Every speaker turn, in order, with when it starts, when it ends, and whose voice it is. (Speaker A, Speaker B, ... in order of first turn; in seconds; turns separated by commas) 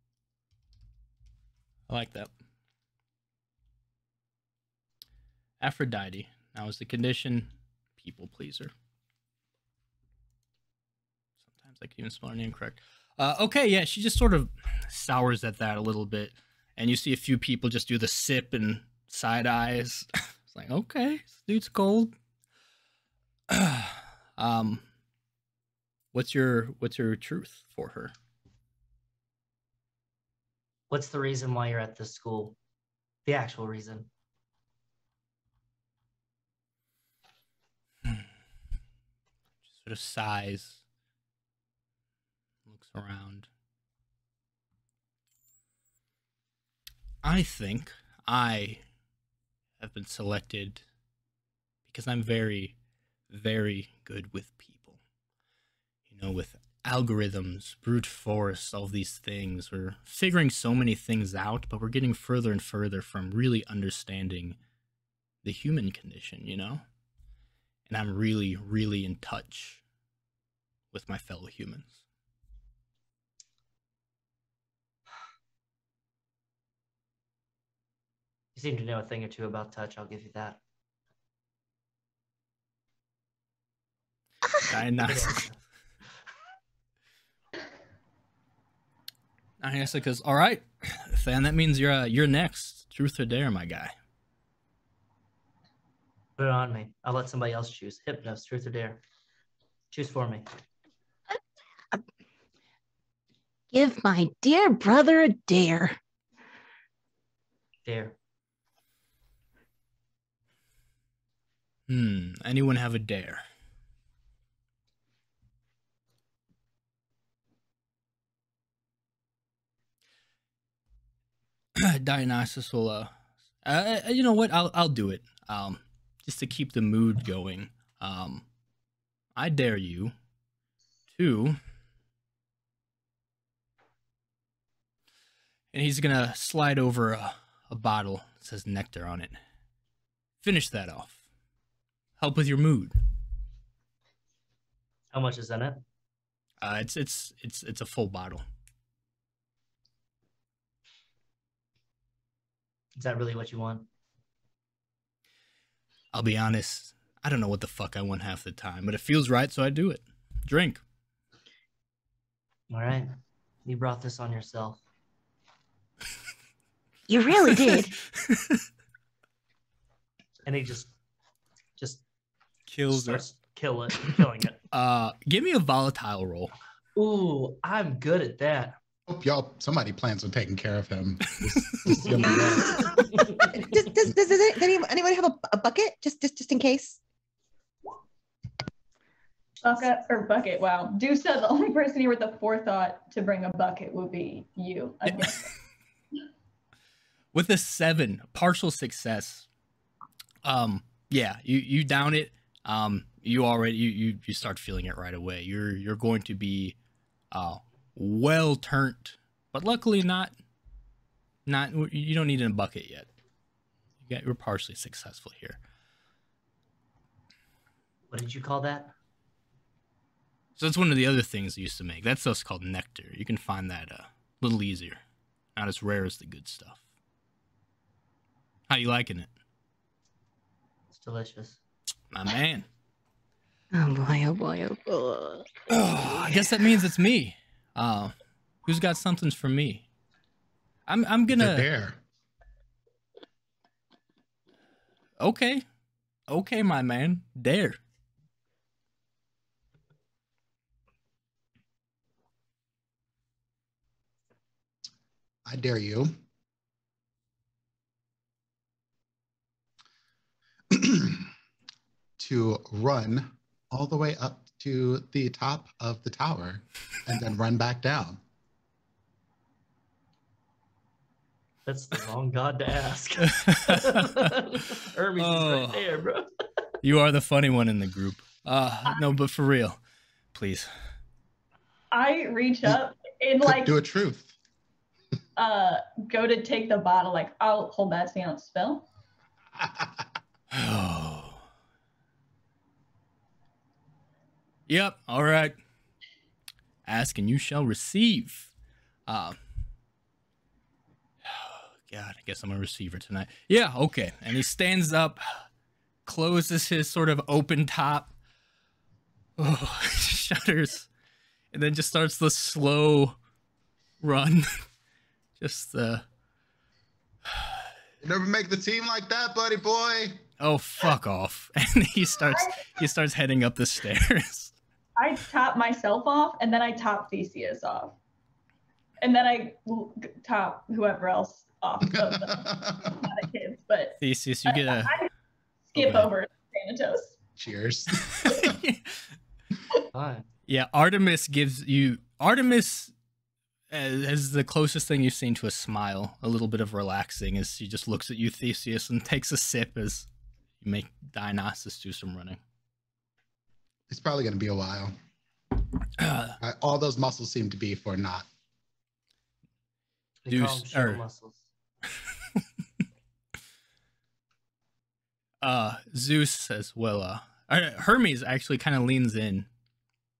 Speaker A: 1.9-2.3, Speaker A: 5.6-8.7, Speaker A: 11.6-22.1, Speaker A: 23.5-24.8, Speaker A: 26.1-28.1, Speaker B: 30.9-32.5, Speaker B: 33.2-34.1, Speaker A: 39.7-40.8, Speaker A: 42.7-43.5, Speaker A: 47.2-48.8, Speaker A: 49.8-50.8, Speaker A: 51.9-52.7, Speaker A: 53.3-55.0, Speaker A: 56.1-64.6, Speaker A: 65.4-66.8, Speaker A: 67.9-69.8, Speaker A: 70.9-72.0, Speaker B: 78.5-80.6, Speaker A: 84.7-85.4, Speaker B: 85.0-85.5, Speaker A: 89.6-93.9, Speaker B: 96.4-99.0, Speaker B: 99.9-100.5, Speaker C: 103.7-106.0, Speaker B: 107.8-108.1, Speaker A: 111.9-113.4, Speaker A: 121.8-123.1, Speaker A: 123.6-128.4, Speaker A: 129.3-130.1, Speaker A: 131.1-131.6, Speaker A: 135.7-139.4, Speaker A: 140.4-141.2, Speaker A: 142.2-143.0, Speaker B: 145.1-145.8, Speaker A: 146.6-148.4, Speaker B: 152.9-153.9, Speaker A: 156.1-160.8, Speaker B: 162.7-163.1, Speaker B: 163.6-164.8, Speaker C: 167.1-167.9, Speaker A: 167.5-168.6, Speaker B: 170.4-170.9, Speaker B: 171.8-172.0, Speaker A: 172.7-173.2, Speaker B: 172.9-174.6, Speaker A: 174.7-176.5, Speaker B: 176.9-178.8, Speaker D: 179.1-183.2, Speaker B: 181.9-183.6, Speaker E: 182.3-182.6, Speaker E: 183.5-187.0, Speaker F: 189.6-195.5, Speaker A: 195.1-195.3, Speaker A: 197.3-199.5, Speaker A: 200.4-206.8, Speaker A: 207.3-210.3, Speaker A: 211.4-213.1, Speaker A: 214.0-215.6, Speaker B: 218.1-218.9, Speaker A: 220.6-225.0, Speaker A: 225.6-226.8, Speaker A: 228.7-229.3, Speaker B: 230.9-231.6, Speaker A: 232.1-232.7, Speaker C: 233.7-235.5, Speaker A: 235.7-239.9, Speaker A: 240.9-241.7, Speaker D: 241.3-242.0, Speaker A: 245.2-245.6, Speaker A: 246.3-247.8, Speaker D: 255.4-256.1, Speaker D: 260.7-261.3, Speaker D: 262.2-268.2, Speaker B: 271.6-276.3, Speaker A: 273.4-274.3, Speaker A: 275.2-275.8, Speaker A: 276.8-279.8, Speaker A: 280.3-280.7, Speaker F: 281.9-283.8, Speaker D: 283.4-284.3, Speaker F: 285.4-288.9, Speaker D: 289.5-290.1, Speaker A: 290.5-291.4, Speaker A: 294.7-295.6, Speaker A: 296.9-298.5, Speaker A: 299.1-299.4, Speaker A: 301.2-305.4, Speaker A: 306.1-308.1, Speaker A: 309.4-310.9, Speaker A: 311.5-313.1, Speaker A: 314.0-314.6, Speaker A: 315.4-316.0, Speaker D: 318.0-320.2, Speaker A: 320.4-324.5, Speaker F: 322.3-322.6, Speaker F: 325.0-328.0, Speaker F: 329.0-335.1, Speaker D: 332.0-333.0, Speaker A: 334.0-335.0, Speaker F: 335.7-337.2, Speaker A: 335.7-336.1, Speaker D: 337.4-338.6, Speaker A: 338.1-339.0, Speaker B: 339.9-340.3, Speaker A: 340.5-342.9, Speaker A: 343.7-350.1, Speaker A: 350.6-352.4, Speaker D: 353.9-354.9, Speaker A: 356.0-356.4, Speaker D: 356.4-358.3, Speaker B: 360.2-361.4, Speaker A: 360.3-361.0, Speaker A: 365.4-369.5